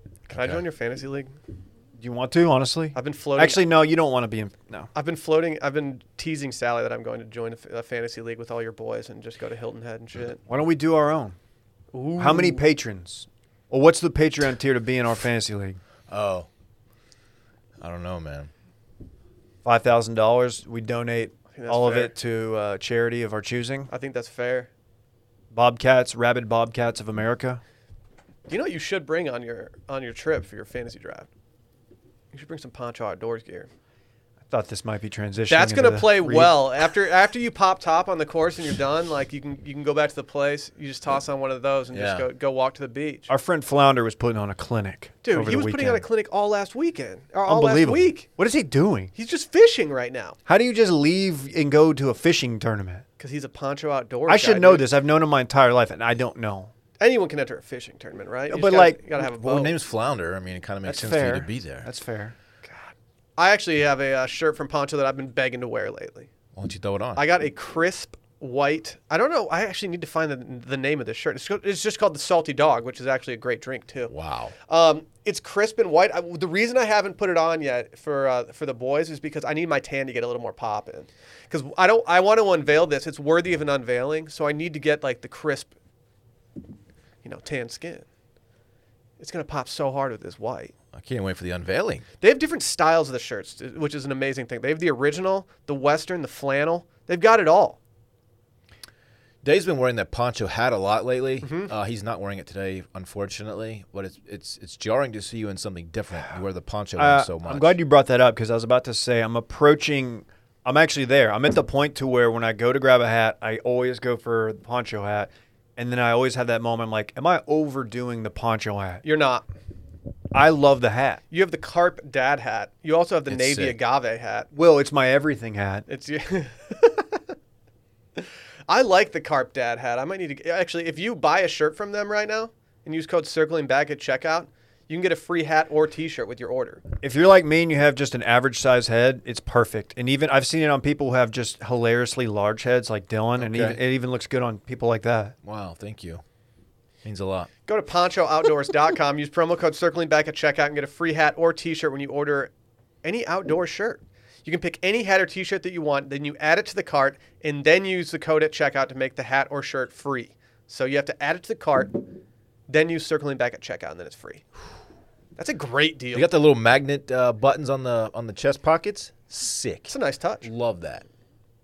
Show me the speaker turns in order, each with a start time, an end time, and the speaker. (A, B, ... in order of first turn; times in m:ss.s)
0:00.3-0:01.3 A
0:00.3-0:00.6 B
0:02.0-0:04.9 C
0:02.9-0:03.6 A
0:04.9-0:10.4 A
0:10.5-0:11.4 C
0:11.9-0:12.6 A
0:12.2-0:15.8 C
0:16.1-0:16.5 B
0:17.8-0:18.5 B
0:19.6-0:23.9 C
0:21.5-0:22.1 A
0:23.9-0:24.7 A
0:25.5-0:27.6 C
0:28.5-0:31.3 A
0:32.3-0:33.7 A
0:34.5-0:36.6 C
0:35.5-0:43.3 A
0:41.9-0:42.3 B
0:43.3-0:46.0 C
0:45.2-0:48.3 A
0:47.5-0:49.1 C
0:49.1-0:50.4 A
0:50.5-0:53.0 C
0:53.2-0:54.9 A
0:54.3-0:56.7 C
0:57.0-0:59.8 A
0:58.5-0:59.1 C
0:59.2-1:01.9 B
1:00.8-1:02.4 C
1:03.4-1:06.3 A
1:06.6-1:07.2 B
1:07.2-1:14.1 A
1:14.1-1:14.5 B
1:14.7-1:25.7 A
1:27.2-1:28.0 A
1:29.2-1:30.7 A
1:30.9-1:32.0 B
1:32.2-1:37.8 A
1:39.4-1:47.8 B
1:41.4-1:41.7 A
1:47.0-1:59.0 C
1:59.0-1:59.4 A
2:00.3-2:01.2 C
2:01.3-2:04.5 A
2:03.3-2:03.8 B
2:04.5-2:05.8 C
2:05.9-2:07.2 A
2:08.2-2:16.8 A
2:17.0-2:25.3 C
2:23.4-2:23.8 B
2:25.4-2:26.2 B
2:27.0-2:27.5 B
2:27.7-2:32.5 A
2:33.0-2:42.0 A
2:42.7-2:44.4 A
2:45.4-2:46.3 A
2:46.1-2:51.0 B
2:49.9-2:50.5 A